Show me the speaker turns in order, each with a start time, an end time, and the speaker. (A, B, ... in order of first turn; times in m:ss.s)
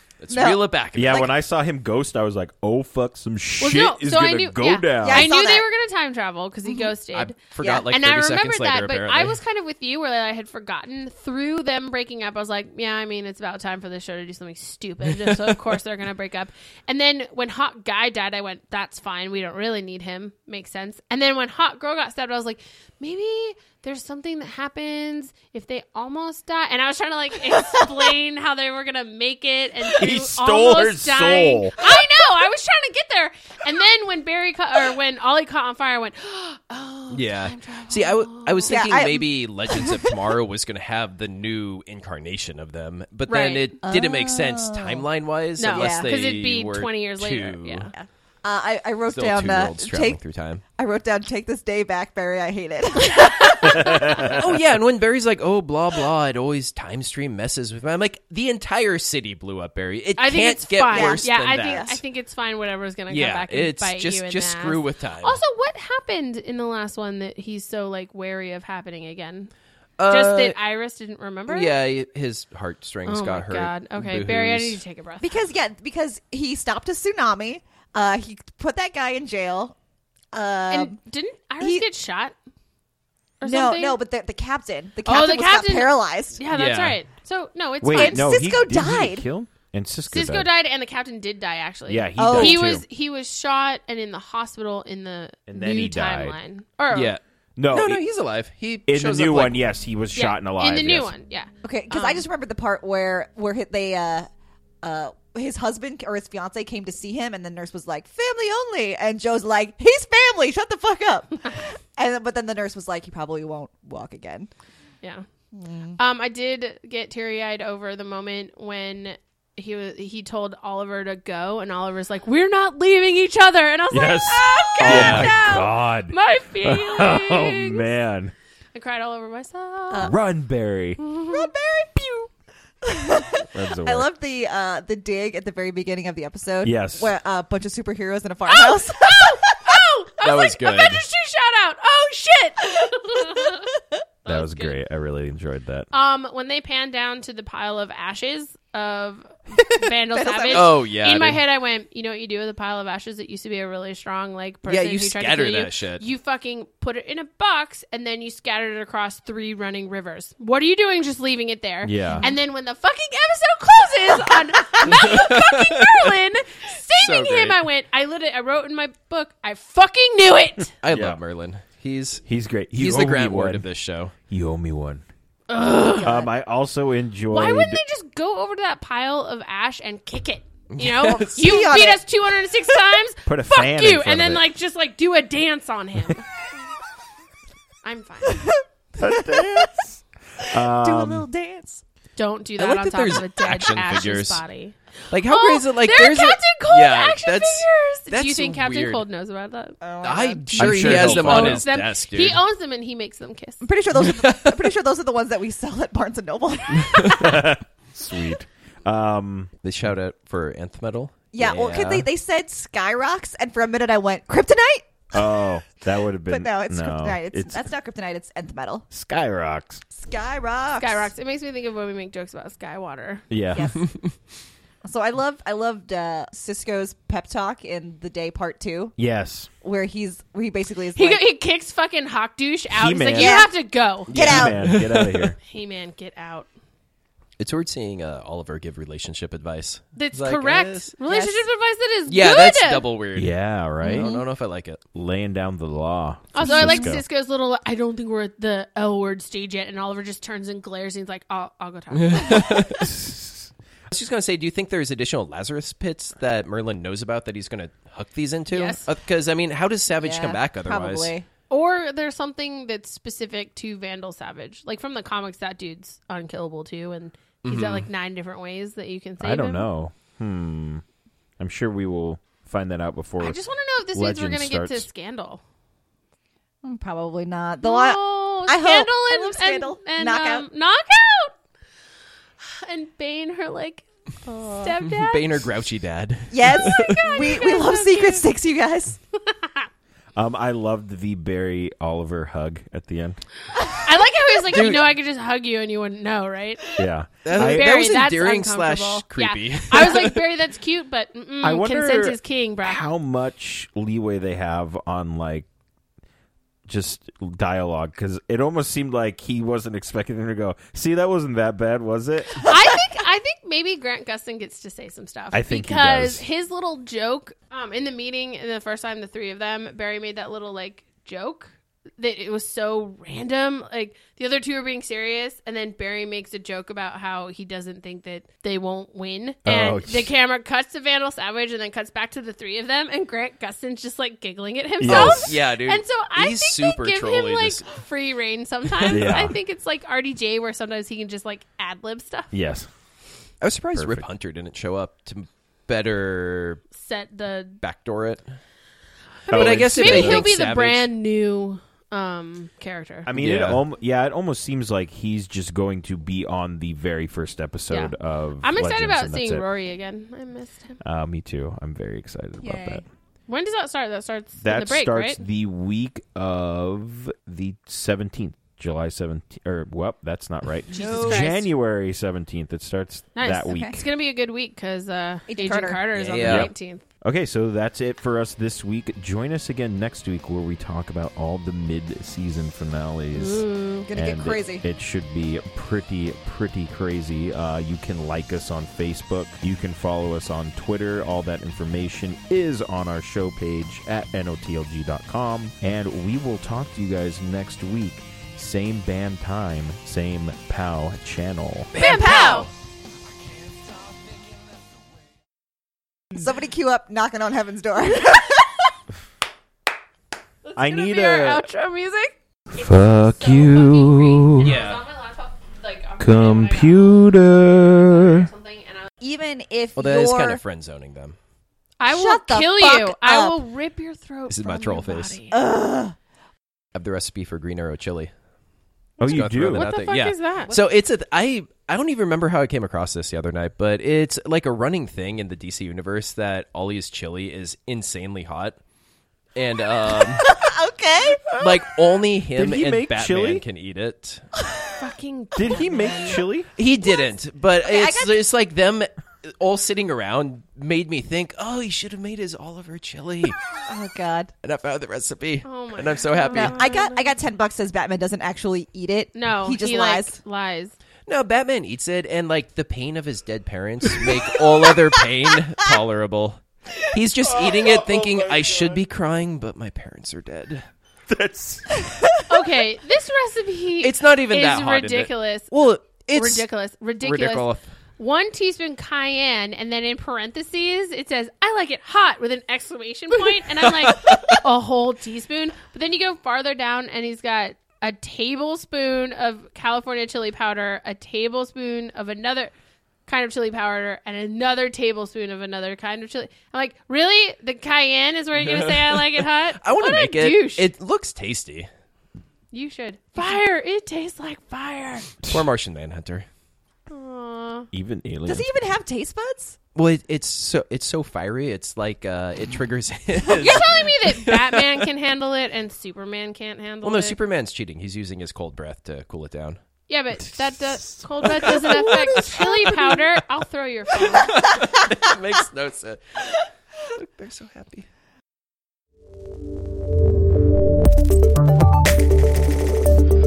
0:00.2-0:01.3 A
0:00.3-0:01.3 B
0:00.9-0:05.3 C
0:03.6-0:38.8 D
0:04.9-0:05.6 B
0:06.6-0:06.9 B
0:07.1-0:09.4 A
0:15.2-0:15.6 A
0:27.5-0:28.1 B
0:29.9-0:31.8 C
0:37.1-0:47.9 A
0:38.7-0:40.2 B
0:43.3-0:43.7 D
0:43.8-0:45.1 B
0:45.6-0:47.9 D
0:45.7-0:46.1 B
0:47.9-0:50.2 B
0:49.1-0:50.6 A
0:50.8-0:54.5 B
0:53.0-0:54.4 D
0:53.6-0:54.4 C
0:54.4-1:02.0 A
1:00.2-1:09.5 D
1:00.9-1:01.9 B
1:03.1-1:05.4 A
1:10.0-1:10.6 A
1:10.1-1:11.7 D
1:11.5-1:14.8 A
1:13.1-1:15.4 D
1:15.2-1:19.7 B
1:20.3-1:21.0 B
1:20.7-1:22.3 D
1:21.6-1:21.9 B
1:23.4-1:24.0 D
1:23.4-1:26.4 B
1:25.0-1:28.4 D
1:26.5-1:27.0 A
1:27.8-1:30.5 C
1:27.9-1:29.3 B
1:30.1-1:37.1 D
1:31.9-1:32.8 C
1:32.2-1:32.6 B
1:35.5-1:36.4 C
1:36.9-1:39.6 A
1:37.6-1:38.0 C
1:38.9-1:41.1 C
1:40.1-1:42.2 D
1:41.6-1:44.3 B
1:44.8-1:54.5 B
1:55.5-1:56.0 B
1:56.0-2:07.9 D
2:03.9-2:08.3 C
2:04.8-2:05.4 A
2:08.7-2:10.1 D
2:10.0-2:11.0 C
2:11.0-2:12.3 B
2:11.1-2:11.5 D
2:12.8-2:19.7 B
2:13.4-2:14.1 C
2:16.6-2:17.1 C
2:18.5-2:23.7 D
2:20.2-2:21.0 A
2:24.2-2:24.8 D
2:24.2-2:25.9 C
2:25.9-2:50.7 D
2:30.1-2:30.8 B
2:30.5-2:31.4 A
2:34.7-2:36.0 A
2:41.8-2:42.3 C
2:42.0-2:42.3 B
2:44.8-2:46.0 A
2:47.0-2:47.6 A
2:50.8-2:54.1 A
2:50.9-2:51.2 C
2:52.2-2:53.6 C
2:54.3-2:55.0 C
2:55.5-2:56.3 D
2:56.0-2:57.8 C
2:57.3-3:06.2 D
3:00.7-3:01.6 A
3:01.1-3:02.0 B
3:03.2-3:04.4 C
3:07.8-3:08.6 D
3:08.3-3:09.8 B
3:09.0-3:11.2 C
3:10.4-3:11.8 B
3:12.2-3:19.8 D
3:12.6-3:14.4 A
3:15.1-3:19.0 A
3:19.8-3:20.5 B
3:20.0-3:22.4 A
3:20.5-3:23.7 D
3:20.6-3:21.6 C
3:23.6-3:27.3 B
3:24.1-3:24.6 A
3:26.8-3:27.2 A
3:27.2-3:29.5 C
3:29.6-3:32.1 A
3:31.3-3:35.1 B
3:35.1-3:37.6 C
3:36.3-3:38.8 B
3:38.9-3:39.8 C
3:39.9-3:41.1 B
3:40.8-3:43.2 D
3:43.3-3:43.7 C
3:43.5-3:43.8 B
3:44.8-3:48.9 B
3:49.0-3:49.5 C
3:49.6-3:51.2 B
3:51.0-3:54.1 D
3:52.7-3:53.5 C
3:53.1-3:53.5 B
3:54.0-3:54.6 B
3:54.1-3:55.3 A
3:54.1-3:55.4 C
3:55.4-3:56.5 D
3:57.4-4:00.9 A
3:59.9-4:02.9 D
4:01.0-4:01.4 B
4:02.1-4:04.8 A
4:03.1-4:04.1 C
4:03.8-4:04.2 B
4:04.9-4:07.0 C
4:06.3-4:12.7 D
4:06.4-4:07.0 B
4:11.9-4:12.9 A
4:12.8-4:13.5 C
4:13.9-4:21.1 A
4:18.5-4:18.8 D
4:19.9-4:21.2 B
4:21.5-4:29.7 D
4:27.4-4:27.9 A
4:29.2-4:30.8 C
4:31.4-4:33.4 C
4:33.2-4:35.4 D
4:33.9-4:34.9 C
4:36.6-4:40.5 B
4:37.6-4:41.4 D
4:42.4-4:45.5 D
4:44.3-4:44.8 B
4:44.8-4:47.0 A
4:46.3-4:49.0 B
4:46.5-4:48.2 D
4:49.2-4:49.6 D
4:50.1-4:53.2 C
4:53.6-5:02.8 D
4:54.5-4:54.9 A
4:56.8-4:57.7 C
4:57.2-5:00.2 A
5:01.4-5:05.5 C
5:06.7-5:12.6 C
5:12.4-5:42.3 D
5:15.3-5:16.2 C
5:29.4-5:30.1 C
5:34.8-5:35.4 C
5:34.9-5:37.7 A
5:38.8-5:39.1 A
5:38.9-5:39.4 C
5:42.3-5:42.7 C
5:43.4-5:46.6 A
5:43.7-5:44.1 C
5:46.7-5:47.6 D
5:47.6-5:48.2 A
5:49.3-5:53.1 D
5:49.3-5:50.8 A
5:49.3-5:50.2 C
5:53.0-5:59.5 C
5:53.2-5:53.6 A
5:57.7-6:00.8 D
6:00.8-6:02.8 C
6:02.4-6:02.8 B
6:03.3-6:05.2 D
6:04.4-6:13.7 C
6:10.7-6:11.3 B
6:10.7-6:11.5 D
6:13.1-6:16.8 D
6:13.5-6:13.8 B
6:15.3-6:16.4 B
6:16.0-6:16.5 A
6:17.0-6:41.7 C
6:23.1-6:23.9 D
6:23.8-6:24.6 B
6:41.7-6:42.5 B
6:41.7-6:42.5 D
6:46.1-6:48.7 B
6:50.4-6:58.9 D
6:50.6-6:51.4 C
6:52.5-6:54.6 C
6:54.4-6:54.8 A
6:56.0-6:58.3 C
6:59.0-7:00.4 B
6:59.8-7:01.2 A
7:01.8-7:05.4 D
7:01.9-7:03.4 B
7:04.3-7:05.2 A
7:05.3-7:06.0 B
7:06.7-7:08.1 A
7:09.0-7:09.7 C
7:09.0-7:18.6 A
7:09.5-7:10.5 D
7:19.3-7:20.3 A
7:20.0-7:21.2 B
7:21.3-7:21.6 C
7:21.4-7:24.3 A
7:22.4-7:23.4 C
7:24.4-7:24.7 B
7:24.8-7:26.2 D
7:25.3-7:26.5 C
7:26.6-7:33.4 A
7:26.8-7:28.2 B
7:33.6-7:34.3 B
7:34.4-7:36.6 A
7:35.4-7:37.1 D
7:36.3-7:40.2 B
7:39.1-7:40.7 D
7:41.1-7:50.6 A
7:47.2-7:48.8 C
7:51.1-7:52.5 C
7:52.3-8:12.5 D
7:53.8-7:56.4 A
7:57.0-7:57.6 A
8:03.6-8:04.4 A
8:13.1-8:20.7 D
8:18.4-8:21.7 A
8:22.5-8:25.1 D
8:25.2-8:26.3 A
8:26.9-8:27.7 D
8:27.7-8:28.5 C
8:28.2-8:29.6 B
8:29.7-8:34.9 A
8:33.2-8:37.2 D
8:36.8-8:39.6 A
8:39.9-8:44.5 D
8:40.9-8:42.4 C
8:41.2-8:42.9 A
8:44.1-8:47.9 A